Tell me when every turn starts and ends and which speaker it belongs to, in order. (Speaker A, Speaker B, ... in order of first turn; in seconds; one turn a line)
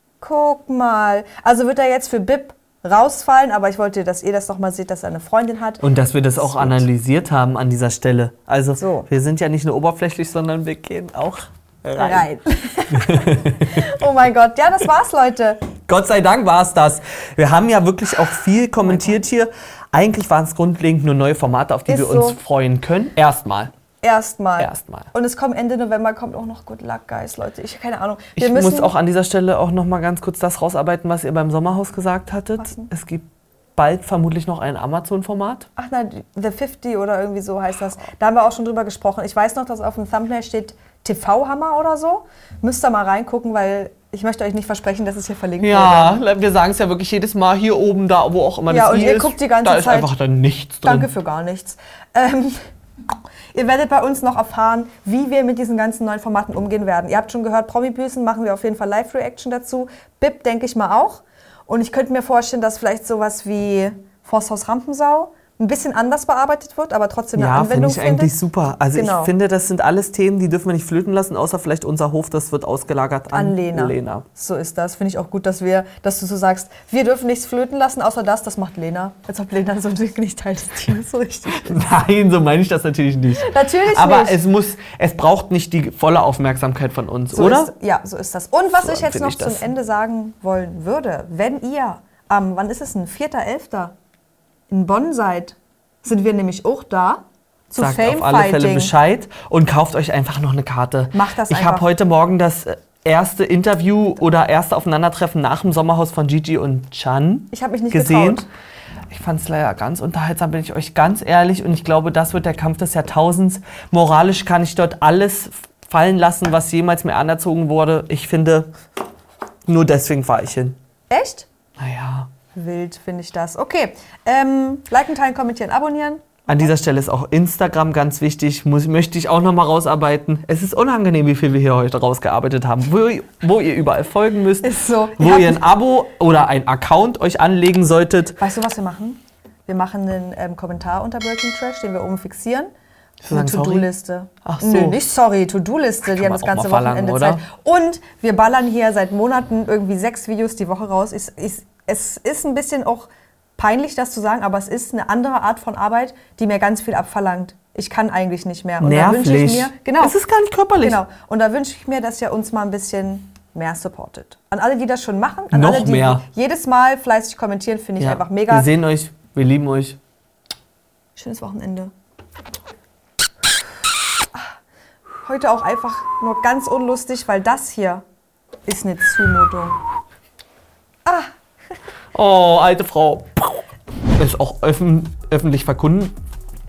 Speaker A: 0.2-5.8
Speaker B: 5.8-12.3
Speaker A: 6.4-6.9
Speaker A: 8.8-9.1
Speaker A: 12.0-15.7
Speaker B: 12.9-13.9
Speaker B: 15.9-23.7
Speaker A: 18.8-19.2
Speaker A: 21.9-22.4
Speaker A: 24.0-28.9
Speaker B: 24.6-25.1
Speaker B: 28.4-33.3
Speaker A: 32.6-32.9
Speaker B: 33.8-35.7
Speaker A: 35.8-46.2
Speaker B: 45.6-51.1
Speaker A: 48.7-50.1
Speaker A: 50.8-68.4
Speaker B: 67.4-74.2
Speaker A: 68.9-69.3
Speaker A: 73.3-81.8
Speaker B: 81.5-87.7
Speaker A: 83.4-84.4
Speaker A: 87.3-94.0
Speaker B: 88.8-89.7
Speaker A: 94.7-98.9
Speaker B: 97.8-108.5
Speaker A: 101.1-101.9
Speaker A: 107.5-108.5
Speaker B: 109.1-118.7
Speaker B: 119.7-120.8
Speaker A: 121.1-121.5
Speaker B: 121.8-122.3
Speaker A: 122.5-126.7
Speaker B: 126.5-138.4
Speaker A: 134.6-135.7
Speaker A: 138.4-142.7
Speaker B: 143.2-143.9
Speaker A: 143.3-160.2
Speaker B: 144.4-145.0
Speaker B: 146.1-147.4
Speaker B: 158.8-161.0
Speaker A: 160.8-168.7
Speaker B: 165.5-166.2
Speaker B: 168.0-170.0
Speaker A: 171.2-171.9
Speaker A: 175.2-178.0
Speaker A: 178.7-179.8
Speaker A: 181.1-181.3
Speaker B: 182.1-183.6
Speaker B: 184.2-186.2